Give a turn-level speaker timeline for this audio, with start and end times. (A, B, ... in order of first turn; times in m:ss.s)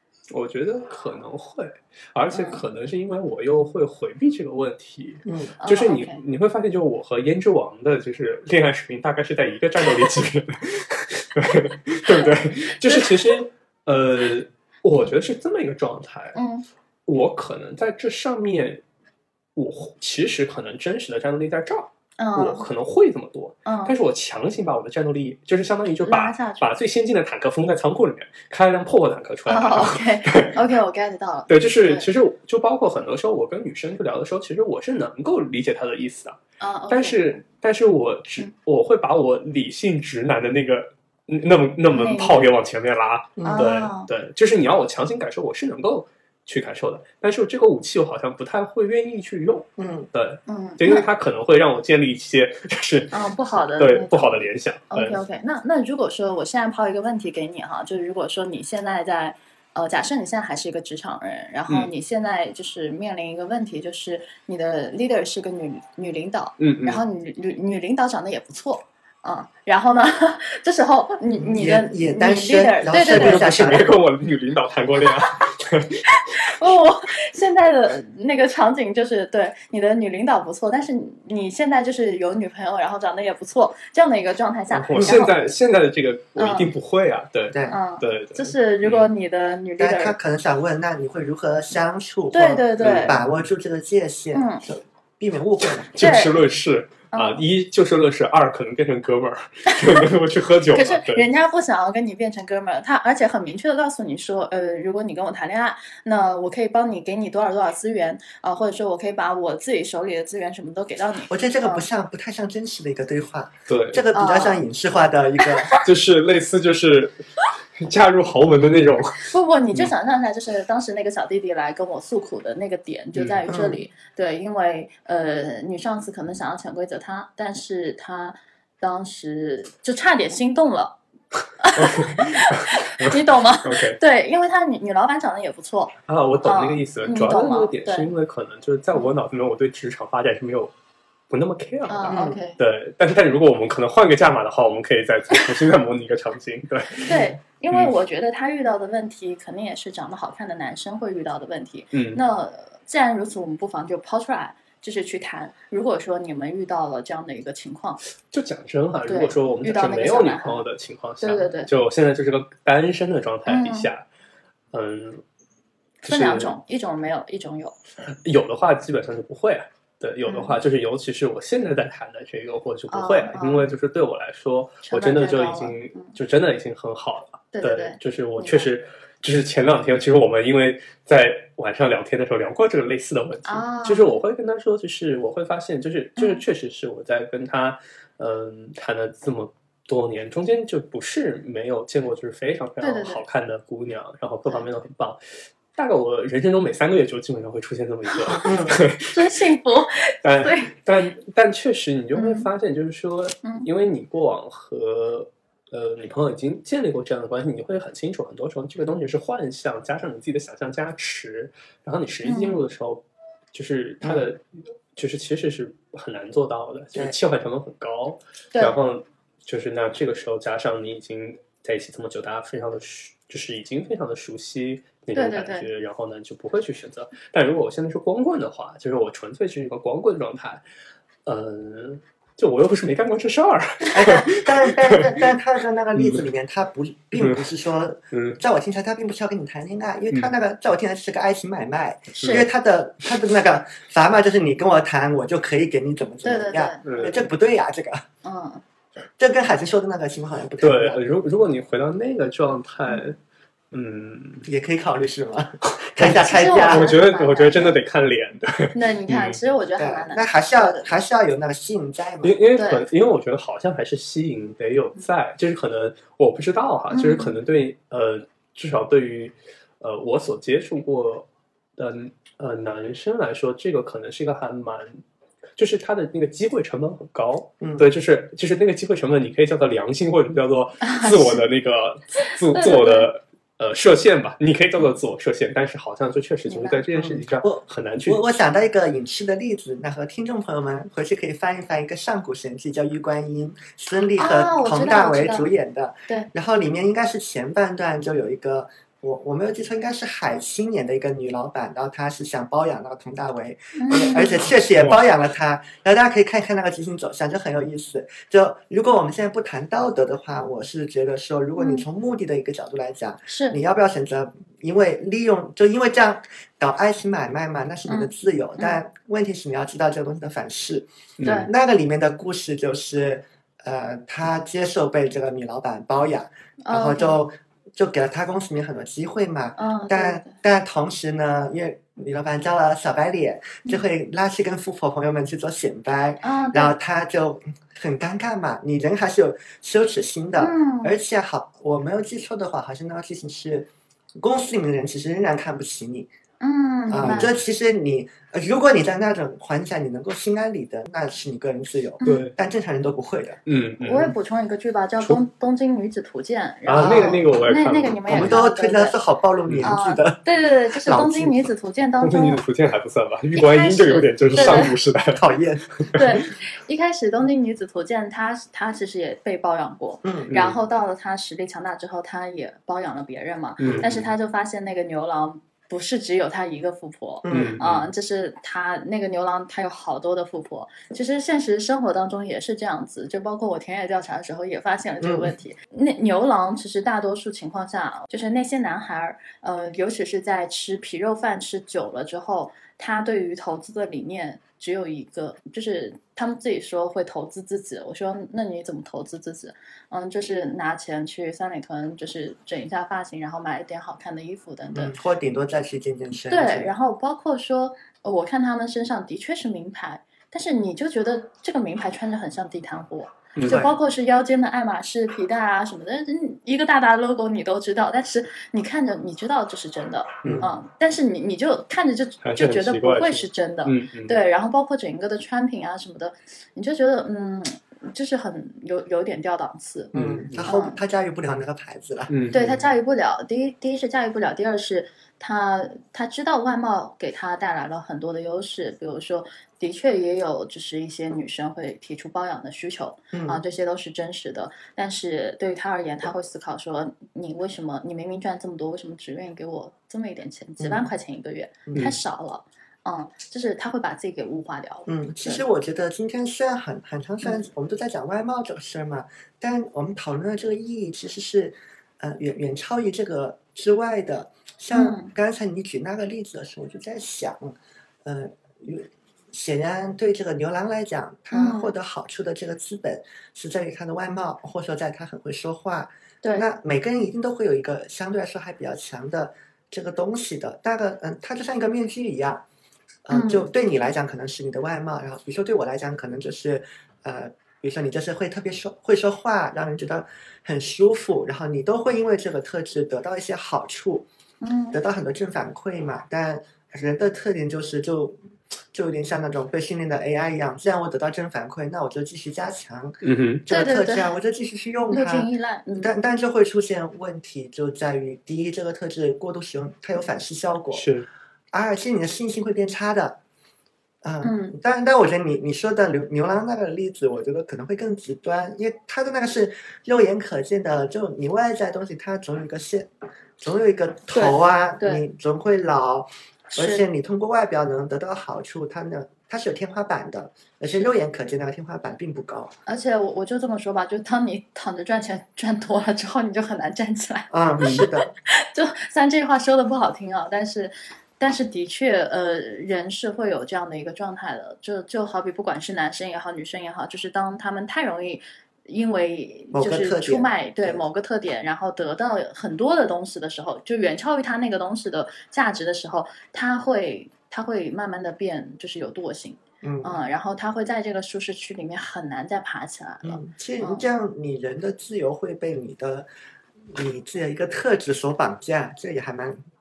0:00.3-0:16.4 A
0:02.3-0:02.6 B
0:05.2-0:05.5 C
0:05.6-0:06.2 B
0:12.8-0:13.4 B
0:16.3-0:16.6 B
0:17.1-0:18.8 A
0:19.5-0:30.6 A
0:22.2-0:22.6 B
0:23.6-0:23.9 B
0:26.0-0:26.8 B
0:29.5-0:32.1 B
0:31.5-0:53.2 A
0:36.6-0:37.4 B
0:41.9-0:42.5 B
0:43.4-0:43.7 C
0:43.4-0:44.1 B
0:49.8-0:50.1 C
0:50.5-0:51.1 B
0:53.1-1:13.5 B
0:53.7-0:55.2 A
1:06.6-1:07.0 A
1:11.4-1:13.9 C
1:12.9-1:16.4 A
1:16.1-1:25.4 B
1:24.7-1:29.1 A
1:24.9-1:25.2 C
1:26.4-1:26.7 B
1:27.5-1:27.8 C
1:27.7-1:30.2 B
1:29.8-1:36.1 C
1:32.3-1:33.2 B
1:32.8-1:33.3 A
1:34.3-1:34.6 B
1:35.6-1:41.2 A
1:36.0-1:36.4 B
1:37.1-1:37.4 B
1:39.7-1:40.0 B
1:40.7-1:51.8 B
1:51.3-1:55.7 C
1:53.7-1:54.0 A
1:54.1-1:54.6 B
1:55.8-1:57.2 A
1:57.8-1:59.9 A
1:59.2-2:11.0 B
2:03.1-2:03.4 A
2:03.5-2:03.8 C
2:11.6-2:18.1 B
2:11.7-2:14.0 A
2:16.1-2:20.7 A
2:21.3-2:27.2 A
2:21.9-2:22.6 B
2:22.1-2:22.4 C
2:27.0-2:38.0 B
2:31.9-2:32.2 A
2:38.3-2:44.0 A
2:39.1-2:40.6 B
2:41.2-2:41.7 B
2:43.5-2:43.9 B
2:44.7-2:45.2 A
2:46.0-2:47.7 B
2:46.0-2:46.5 A
2:48.1-3:15.2 A
2:50.2-2:50.6 B
2:52.9-2:53.7 B
2:54.8-2:56.1 B
2:57.5-2:58.7 B
3:03.4-3:04.1 B
3:06.2-3:06.4 B
3:12.8-3:13.2 B
3:15.7-3:19.3 A
3:18.2-3:18.4 B
3:18.3-3:18.8 C
3:19.0-3:20.7 B
3:20.2-3:34.4 A
3:22.1-3:22.5 B
3:32.2-3:32.6 B
3:34.0-3:34.3 C
3:34.9-3:50.6 A
3:45.1-3:45.7 B
3:51.2-3:55.3 A
3:53.9-4:08.0 C
3:55.9-3:56.2 A
3:57.2-3:57.4 A
3:58.1-3:58.4 A
4:02.2-4:02.4 A
4:02.2-4:02.4 B
4:06.2-4:07.1 B
4:06.8-4:07.2 A
4:08.2-4:08.6 B
4:09.2-4:11.0 C
4:10.6-4:13.2 A
4:13.7-4:14.5 A
4:14.4-4:16.9 C
4:16.0-4:19.4 A
4:16.2-4:17.8 B
4:18.7-4:20.9 B
4:19.8-4:22.4 C
4:22.2-4:35.0 A
4:22.6-4:22.8 B
4:26.9-4:27.4 B
4:35.6-4:48.2 A
4:37.6-4:37.9 C
4:40.8-4:41.4 B
4:42.2-4:43.1 B
4:46.5-4:46.8 B
4:46.9-5:20.9 C
4:54.2-4:55.5 B
5:03.8-5:04.4 B
5:11.6-5:11.8 B
5:13.3-5:13.6 B
5:17.9-5:18.8 B
5:21.2-5:21.5 A
5:21.2-5:21.5 B
5:21.4-5:46.1 C
5:26.6-5:27.2 B
5:29.6-5:30.3 B
5:36.2-5:36.7 B
5:40.4-5:41.0 B
5:46.4-5:47.3 B
5:46.9-5:53.4 C
5:47.0-5:47.3 A
5:52.0-5:52.3 B
5:52.0-5:52.3 A
5:53.4-5:54.2 A
5:53.8-5:59.0 B
5:56.6-5:58.4 A
5:56.8-5:57.2 C
5:58.1-6:00.2 C
5:59.5-5:59.7 A
5:59.6-6:02.4 B
6:00.8-6:01.3 C
6:02.0-6:05.3 A
6:03.3-6:04.7 B
6:04.3-6:06.2 C
6:05.8-6:06.2 A
6:05.9-6:44.9 B
6:10.0-6:10.3 C
6:10.3-6:10.6 A
6:13.6-6:14.1 A
6:17.2-6:17.6 C
6:17.3-6:17.9 A
6:25.0-6:25.3 C
6:44.7-6:46.7 C
6:46.3-7:09.9 B
6:53.3-6:53.7 A
6:53.4-6:53.7 C
7:00.2-7:00.5 C
7:02.2-7:04.2 A
7:09.9-7:10.5 A
7:09.9-7:12.6 C
7:10.4-7:10.8 B
7:12.1-7:12.6 A
7:12.3-7:35.4 B
7:23.1-7:23.4 C
7:30.6-7:30.9 C
7:34.8-8:02.4 C
7:44.7-7:45.1 B
7:51.3-7:51.7 B
8:03.1-8:14.1 C
8:03.1-8:03.5 B
8:14.4-8:14.8 B
8:14.7-8:18.2 C
8:18.7-8:30.9 C
8:23.0-8:23.4 A
8:23.5-8:24.1 B
8:24.9-8:25.9 B
8:30.7-8:31.1 A
8:31.5-8:33.2 C
8:34.0-8:52.5 C
8:34.2-8:34.6 B
8:44.1-8:45.0 B
8:46.5-8:46.8 B
8:52.6-9:23.8 B
8:57.3-8:58.1 C
8:57.6-8:57.9 A
9:09.5-9:10.8 C
9:19.6-9:20.0 C
9:23.0-9:26.1 C
9:26.7-9:29.4 C